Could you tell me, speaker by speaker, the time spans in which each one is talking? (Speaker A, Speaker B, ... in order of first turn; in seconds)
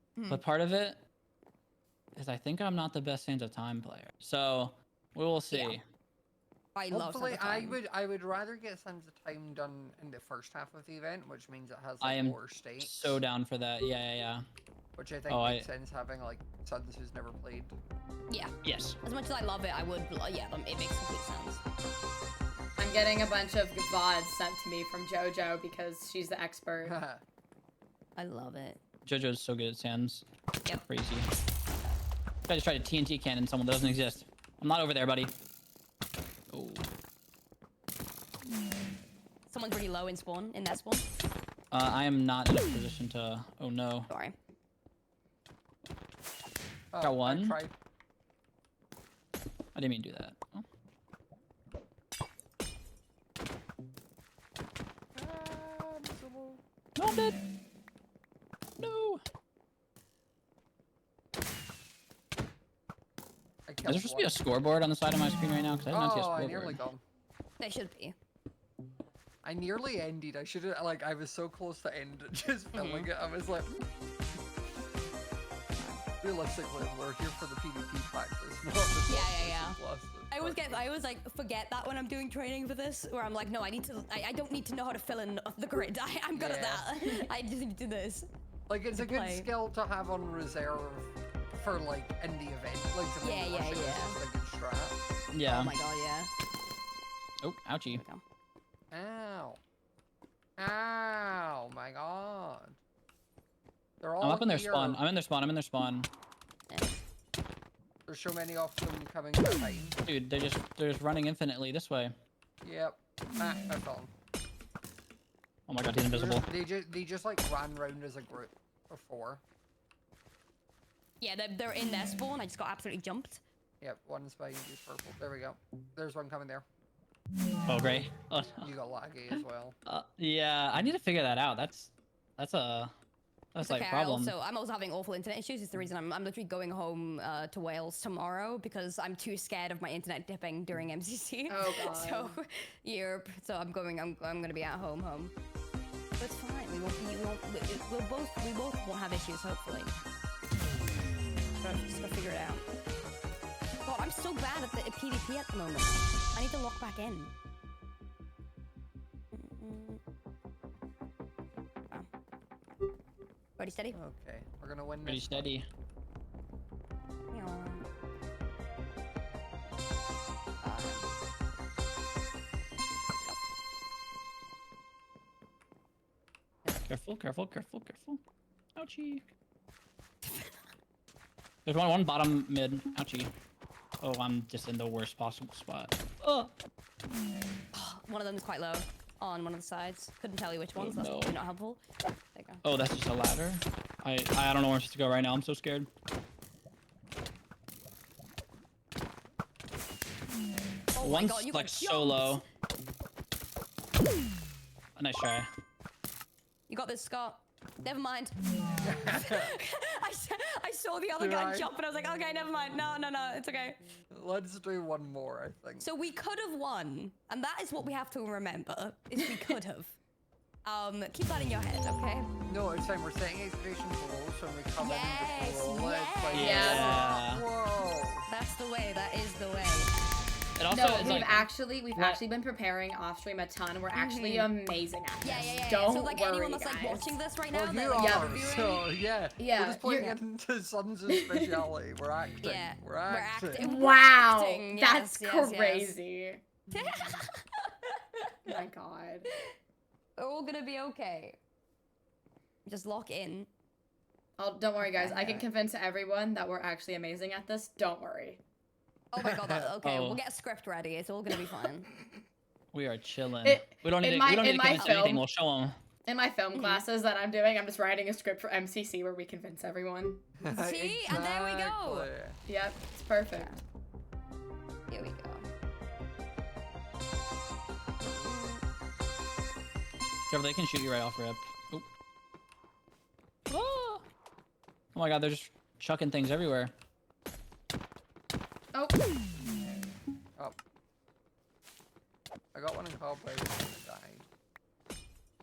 Speaker A: 0.2-0.4, 5.5-5.8, 6.7-7.8, 18.3-21.6, 28.2-28.8, 39.5-41.0, 44.1-44.4, 67.6-68.1, 72.7-73.1, 75.8-76.0, 79.1-88.3, 88.9-89.5, 93.2-94.2, 95.4-96.3, 97.9-98.2, 106.7-107.0, 121.2-123.4, 133.6-145.3, 146.2-149.9, 151.6-152.6, 153.8-157.3, 159.3-160.0, 163.6-164.0, 167.3-167.9, 170.6-171.1, 180.2-180.5, 187.7-191.8, 192.3-192.6, 200.9-202.4, 206.7-208.4, 209.0-213.8, 215.8-220.0, 220.6-222.3, 224.8-226.8, 228.3-229.9, 233.9-234.5, 235.2-238.8, 242.4-245.9, 246.7-248.5, 250.2-251.4, 252.7-253.5, 254.8-255.4, 259.1-261.9, 264.8-265.1, 266.5-266.8, 270.5-272.1, 273.3-273.6, 274.9-275.5, 278.0-278.6
Speaker B: 0.3-1.0, 2.1-5.8, 12.0-14.4, 15.3-15.7, 18.6-19.0, 29.0-30.2, 30.9-31.3, 32.5-35.3, 36.5-36.9, 41.7-44.1, 47.0-47.6, 49.7-50.6, 57.0-57.4, 58.8-59.2, 63.9-66.8, 95.3-95.7, 97.4-98.0, 104.2-106.1, 110.0-112.1, 115.7-116.5, 127.7-128.7, 129.3-132.9, 133.5-134.3, 165.1-165.7, 176.8-178.2, 178.8-179.3, 181.6-183.3, 184.0-186.5, 190.7-191.4, 192.6-195.9, 201.0-202.4, 204.9-205.5, 226.3-227.4, 230.6-232.2, 259.8-260.2, 262.7-265.8, 280.3-281.9, 283.5-284.0, 284.9-286.7
Speaker C: 6.9-13.2, 14.9-17.8, 26.8-27.2, 46.9-47.7, 55.1-56.6, 63.7-64.7, 65.9-67.0, 69.4-73.8, 76.2-80.8, 86.3-87.1, 88.7-95.0, 98.9-99.6, 100.6-102.8, 104.0-105.0, 108.0-110.0, 112.6-114.1, 116.1-119.4, 123.8-126.6, 128.6-129.8, 163.9-165.5, 208.8-209.5, 211.1-211.7, 214.1-215.9, 222.5-228.3, 237.5-243.6, 259.2-259.7, 270.4-272.4, 292.5-294.3
Speaker D: 22.8-26.9, 141.5-142.4, 226.3-227.0, 230.7-237.2, 238.0-238.5, 239.4-240.2, 241.1-241.6, 243.6-246.4, 248.4-249.3, 254.4-258.4, 263.4-265.2, 266.1-270.2, 272.4-273.6